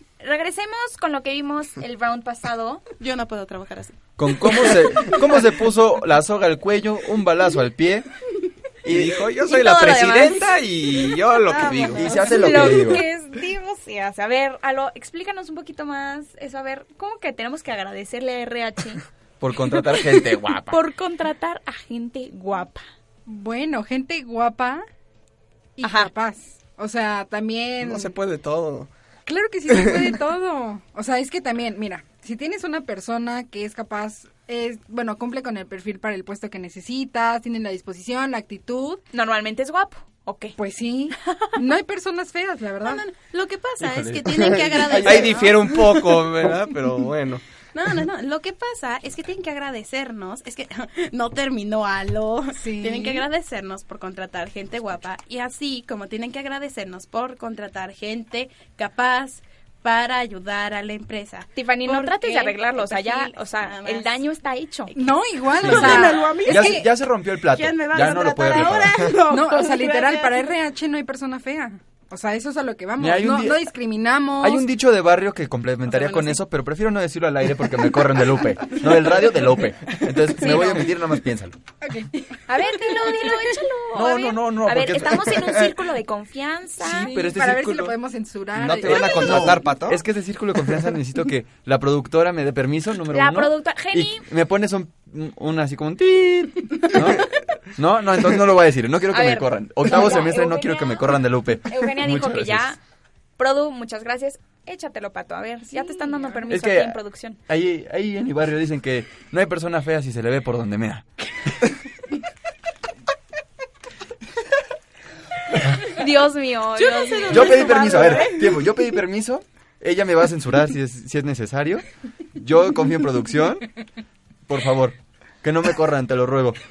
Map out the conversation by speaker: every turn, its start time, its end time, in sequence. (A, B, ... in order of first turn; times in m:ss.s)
0:00.2-0:02.8 A
0:03.0-0:04.9 B
0:04.2-0:08.1 C
0:08.8-0:09.2 C
0:08.8-0:12.2 D
0:09.4-0:10.5 A
0:11.4-0:13.0 B
0:11.9-0:13.0 C
0:12.2-0:19.0 A
0:19.4-0:20.8 C
0:20.7-0:22.8 A
0:23.3-0:24.8 E
0:25.8-0:28.2 E
0:25.8-0:26.1 A
0:27.8-0:28.9 D
0:29.2-0:39.0 E
0:39.1-0:40.6 A
0:40.6-0:43.0 E
0:42.8-0:45.9 B
0:43.8-0:45.5 C
0:44.8-0:47.4 D
0:47.7-1:04.2 B
0:52.5-0:53.3 E
1:01.6-1:04.9 A
1:04.9-1:06.9 E
1:05.5-1:10.5 B
1:05.6-1:09.1 C
1:09.2-1:14.6 E
1:13.0-1:13.7 C
1:14.4-1:21.6 C
1:15.9-1:16.4 E
1:20.4-1:20.8 A
1:21.8-1:23.1 E
1:22.5-1:27.1 A
1:23.9-1:25.7 C
1:26.8-1:29.6 E
1:26.8-1:28.0 C
1:28.6-1:42.7 C
1:28.9-1:29.8 D
1:33.1-1:34.2 A
1:39.1-1:42.8 A
1:43.4-1:47.4 A
1:46.5-1:51.0 C
1:55.9-1:58.2 A
1:56.7-1:58.6 B
1:57.3-2:01.8 C
2:02.3-2:03.7 C
2:04.5-2:06.6 C